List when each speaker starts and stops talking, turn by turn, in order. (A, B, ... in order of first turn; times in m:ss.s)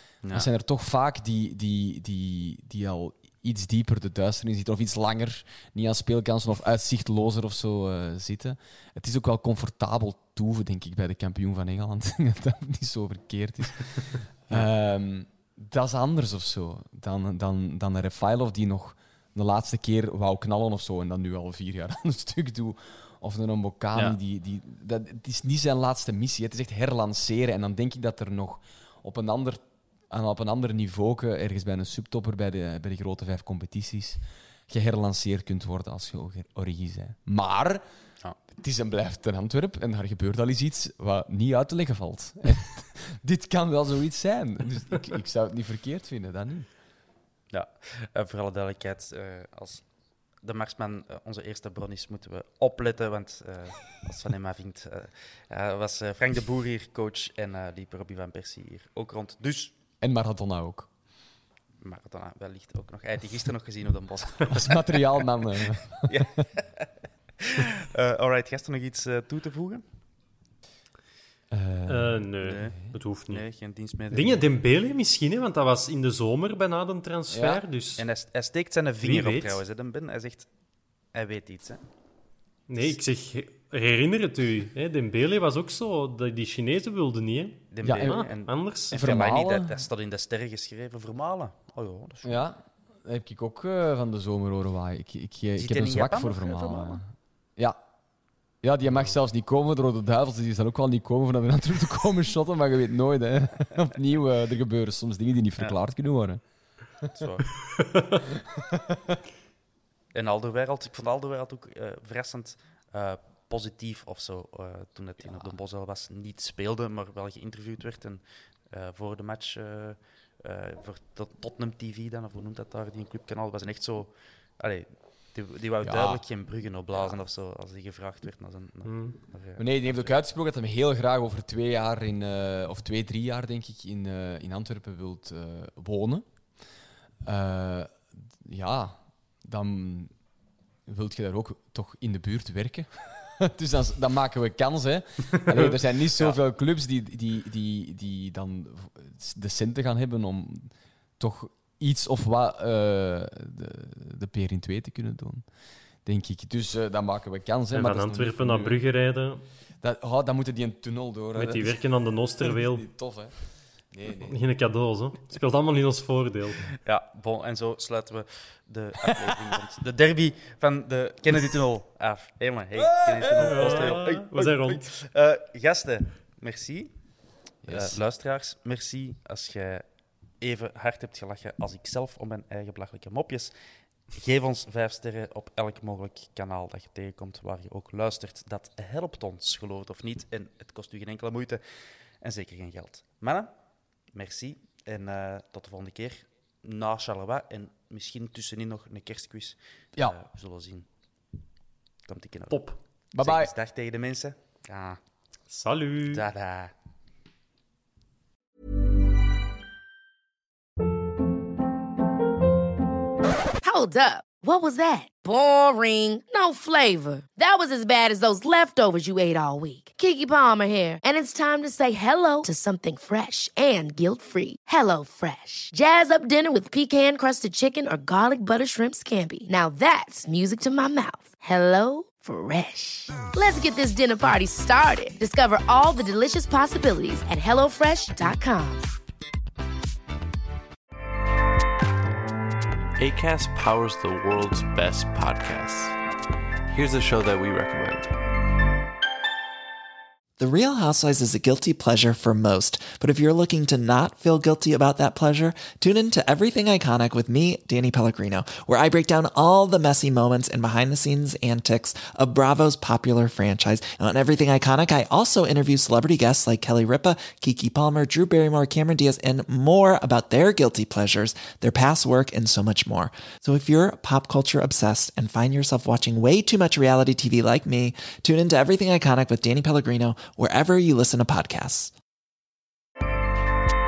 0:00.3-0:37.8 A
0:38.5-0:46.7 A
0:47.5-0:49.9 B
0:50.4-0:59.8 B
1:00.0-1:00.9 A
1:01.8-1:05.2 B
1:04.5-1:06.3 A
1:06.1-1:09.8 B
1:11.5-1:12.9 A
1:11.9-1:13.4 C
1:12.4-1:12.8 B
1:13.3-1:14.4 B
1:14.1-1:18.1 C
1:17.3-1:17.6 A
1:18.0-1:20.5 B
1:19.0-1:19.6 C
1:21.1-1:21.8 B
1:22.7-1:29.0 C
1:27.7-1:32.4 B
1:27.8-1:28.2 A
1:28.9-1:29.9 A
1:32.2-1:37.8 A
1:35.6-1:37.0 B
1:38.6-1:46.4 A
1:47.1-1:47.8 B
1:48.7-1:49.2 A
1:50.1-2:10.1 B
2:05.8-2:06.2 A
2:08.8-2:09.2 C
2:09.6-2:16.2 A
2:17.2-2:20.1 A
2:20.9-2:35.4 A
2:36.0-2:38.8 A
2:37.7-2:39.4 C
2:39.8-2:41.8 A
2:41.4-2:42.8 C
2:42.4-2:43.3 A
2:43.9-2:44.4 A
2:44.3-2:46.7 C
2:46.8-2:56.9 B
2:52.8-2:54.0 A
2:53.4-2:54.9 C
2:57.6-2:58.0 A
2:57.7-2:59.8 B
3:00.4-3:03.5 B
3:04.1-3:11.6 B
3:12.2-3:13.5 B
3:14.1-3:20.9 B
3:22.1-3:25.0 B
3:22.5-3:22.8 C
3:23.1-3:23.5 A
3:25.5-3:26.2 C
3:26.1-3:26.7 B
3:33.6-3:58.9 D
4:03.0-4:06.0 E
4:06.7-4:08.1 E
4:10.4-4:41.9 F